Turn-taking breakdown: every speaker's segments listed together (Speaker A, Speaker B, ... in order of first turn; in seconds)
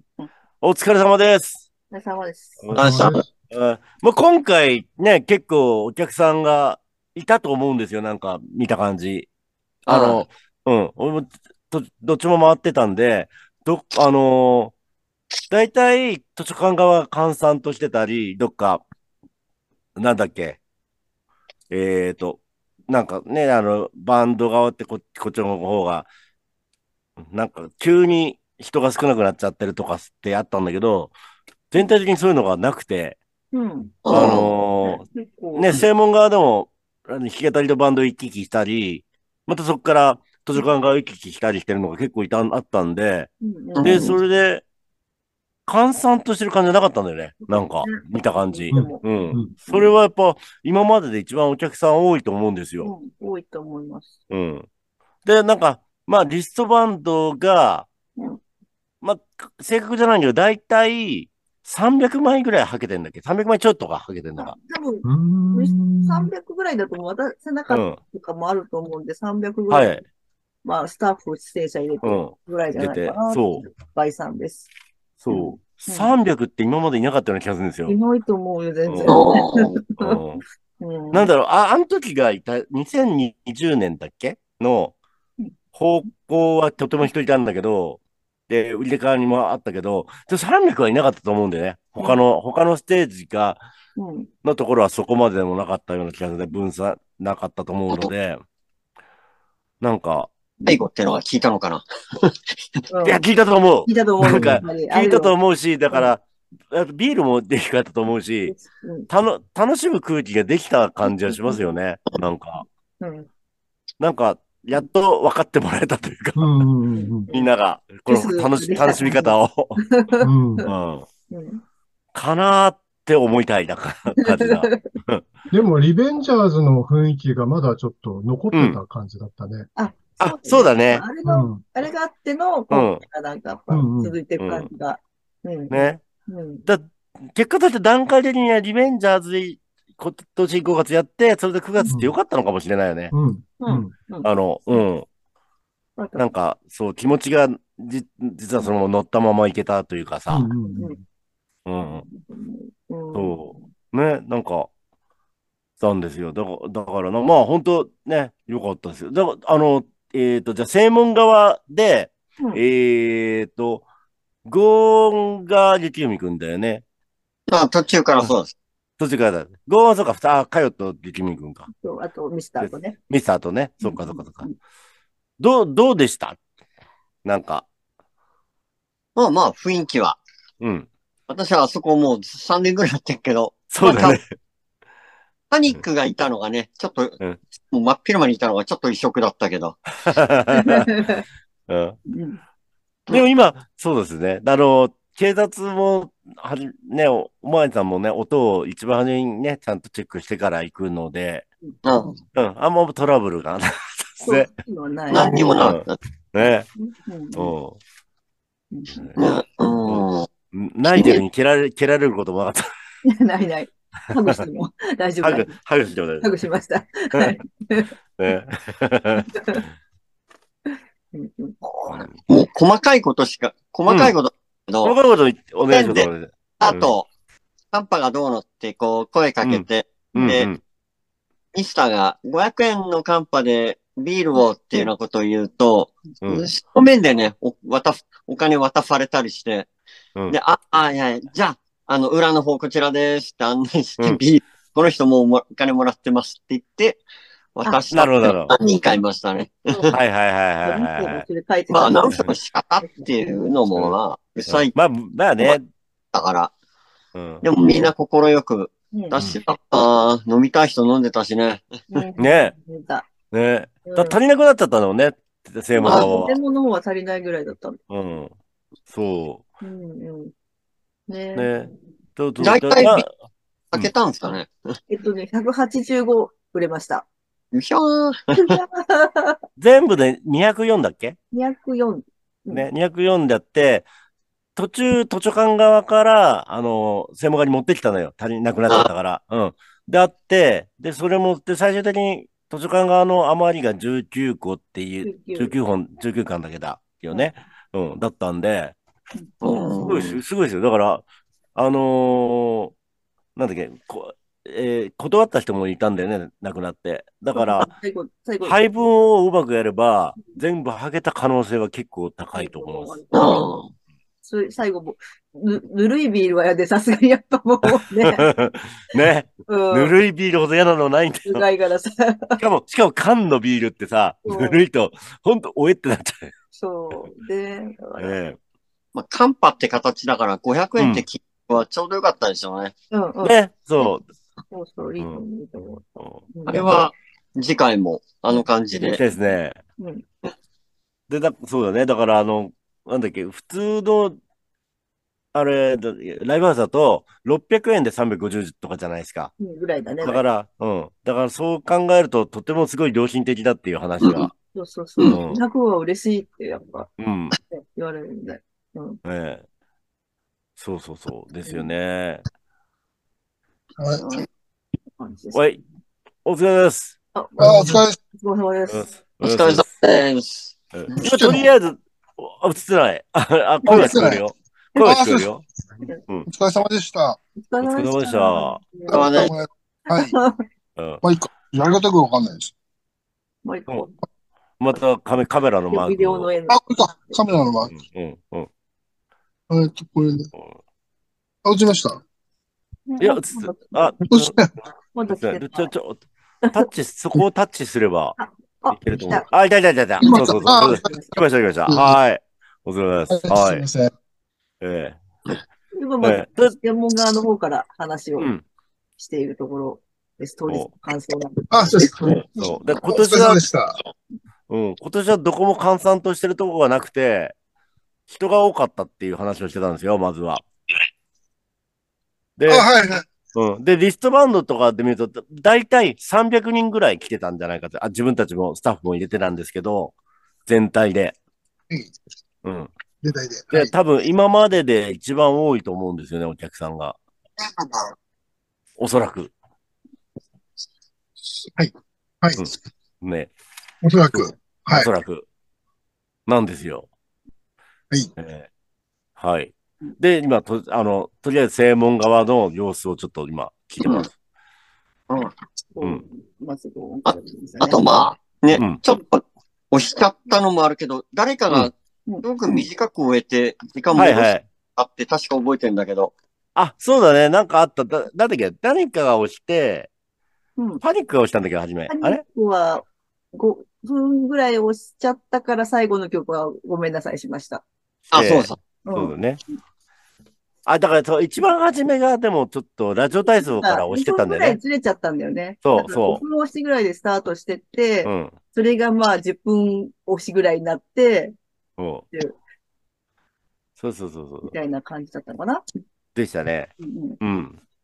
Speaker A: 0.6-1.6, 2.6-9.3, 9.9-14.7, 15.5-18.8, 19.9-20.6, 21.7-26.1, 27.2-31.1, 31.7-33.2, 34.1-35.0, 35.5-43.3, 43.8-44.6, 45.7-52.9, 54.3-54.6, 55.2-57.9, 59.0-64.5, 67.7-68.0, 69.7-70.0, 72.0-73.7, 75.2-78.0, 78.8-79.2, 80.0-80.4, 81.1-84.9, 85.7-93.6, 94.4-98.4, 99.8-100.3, 103.0-108.6, 109.1-112.6, 114.0-116.7, 117.3-119.8, 120.7-121.0, 122.1-125.2, 128.5-128.8, 130.2-131.1, 132.7-133.0, 134.4-134.7, 135.7-136.0, 136.7-143.1, 144.2-145.1, 146.2-150.5, 151.7-152.0, 153.1-154.7, 155.8-163.8, 164.4-166.8, 169.0-171.7, 172.6-174.5, 175.4-176.4, 177.2-177.7, 180.6-180.9, 183.7-184.2, 190.0-191.0, 191.7-192.0, 193.1-201.5, 202.3-204.5, 205.6-206.7, 207.3-207.8, 209.8-212.6, 215.2-216.3, 218.2-219.2, 221.9-222.2, 223.8-224.2, 224.8-226.9, 229.4-230.6, 236.2-236.5, 247.9-248.5, 249.9-251.2, 254.4-255.7, 257.1-257.4, 262.2-262.5, 263.3-266.4, 267.9-268.3, 268.9-269.4, 271.3-273.1, 279.6-281.1, 282.5-283.9, 284.6-298.7, 299.8-301.0, 301.5-302.7, 303.4-307.7, 308.4-313.0, 317.6-321.5, 322.4-326.3, 328.0-328.4, 330.8-331.0, 333.2-334.0, 335.9-336.8, 338.9-339.6, 341.1-344.2, 345.3-349.3, 350.0-354.3, 355.0-355.4, 357.0-357.4, 359.0-359.4, 360.6-362.2, 365.3-365.6, 366.2-367.0, 368.7-369.6, 370.7-375.4, 377.6-378.6, 380.8-381.0, 384.6-386.3, 387.6-388.5, 393.0-394.4, 395.1-398.2, 398.7-403.6, 404.6-405.0, 406.0-406.5, 408.2-408.4, 412.4-413.4, 414.5-417.3, 418.1-420.4, 422.4-422.7, 423.3-429.9, 430.5-431.1, 432.4-432.7, 433.5-437.0, 438.8-439.3, 442.4-443.3, 444.1-445.3, 446.3-446.9, 448.2-448.5, 449.2-454.1, 458.5-458.8, 463.9-464.4, 466.6-469.9, 470.8-472.2, 478.1-479.4, 480.6-484.6, 485.6-486.2, 488.0-488.3, 491.8-492.0, 493.8-494.5, 496.1-497.6
Speaker B: 1.9-2.6, 33.5-34.3, 34.8-35.8, 43.4-44.2, 47.5-49.9, 52.8-54.1, 64.4-70.0, 70.6-74.7, 75.3-76.1, 77.9-80.2, 80.8-81.3, 94.0-94.3, 102.9-103.2, 103.8-105.4, 105.9-106.1, 108.5-109.1, 111.0-111.7, 113.0-113.3, 116.9-117.5, 118.1-120.7, 121.3-121.6, 124.2-124.8, 129.8-136.6, 143.6-144.8, 146.0-146.3, 150.6-151.0, 151.8-153.5, 171.7-173.0, 173.8-174.5, 190.7-191.2, 192.1-192.4, 201.6-202.1, 204.2-205.3, 206.8-207.5, 208.7-209.1, 213.0-215.5, 216.2-217.9, 219.2-219.6, 220.7-221.6, 249.7-249.9, 250.6-253.5, 261.9-263.1, 263.9-264.2, 265.7-267.8, 269.6-270.3, 271.1-271.7, 274.9-277.1, 278.3-279.4, 281.3-282.7, 295.0-295.5, 299.1-300.0, 307.3-308.7, 312.3-313.5, 314.2-318.3, 319.5-319.9, 321.3-322.4, 324.2-324.6, 326.5-328.2, 332.9-333.9, 334.5-336.8, 339.8-340.0, 349.4-350.2, 354.5-356.9, 357.5-359.0, 365.0-365.5, 367.1-368.9, 373.6-374.1, 377.4-379.1, 379.9-380.4, 383.4-383.9, 385.7-387.1, 392.9-393.9, 394.9-395.7, 398.2-399.2, 400.0-401.1, 405.7-408.3, 409.0-411.8, 455.7-457.9, 470.6-470.8, 471.9-477.6, 478.8-479.1, 483.2-491.4, 494.4-495.6, 496.8-497.2
Speaker C: 2.7-3.2, 9.8-10.2, 34.0-34.5, 43.8-44.1, 79.1-79.8, 100.6-102.6, 167.5-168.5, 179.2-180.2, 181.3-184.2, 185.5-189.8, 201.8-202.2, 205.1-205.9, 209.2-210.3, 221.6-224.9, 225.7-227.1, 227.7-230.5, 231.5-239.7, 240.3-247.0, 247.5-250.0, 251.7-254.7, 256.1-256.5, 257.4-262.0, 265.9-266.1, 272.4-273.0, 273.7-274.6, 277.5-278.6, 299.4-300.2, 313.1-313.7, 328.9-332.7, 336.5-339.0, 354.0-354.3, 369.2-371.2, 378.9-379.3, 457.1-466.1, 478.1-478.6
Speaker D: 2.8-3.3, 48.7-49.6, 65.0-66.3, 104.2-104.7, 116.3-117.3, 120.2-120.7, 125.5-129.7, 131.2-131.6, 133.7-134.2, 143.1-143.9, 150.3-151.0
Speaker E: 363.8-364.1, 367.4-368.0, 371.0-371.4, 373.7-374.2, 374.8-375.3, 376.3-377.2, 378.9-380.1, 381.0-382.5, 386.5-387.8, 389.5-390.3, 391.4-392.0, 394.1-394.5, 400.0-400.9, 401.7-401.9, 403.1-403.9, 411.5-413.8, 422.4-423.1, 433.0-433.7, 437.4-437.9, 441.5-442.5, 443.8-444.9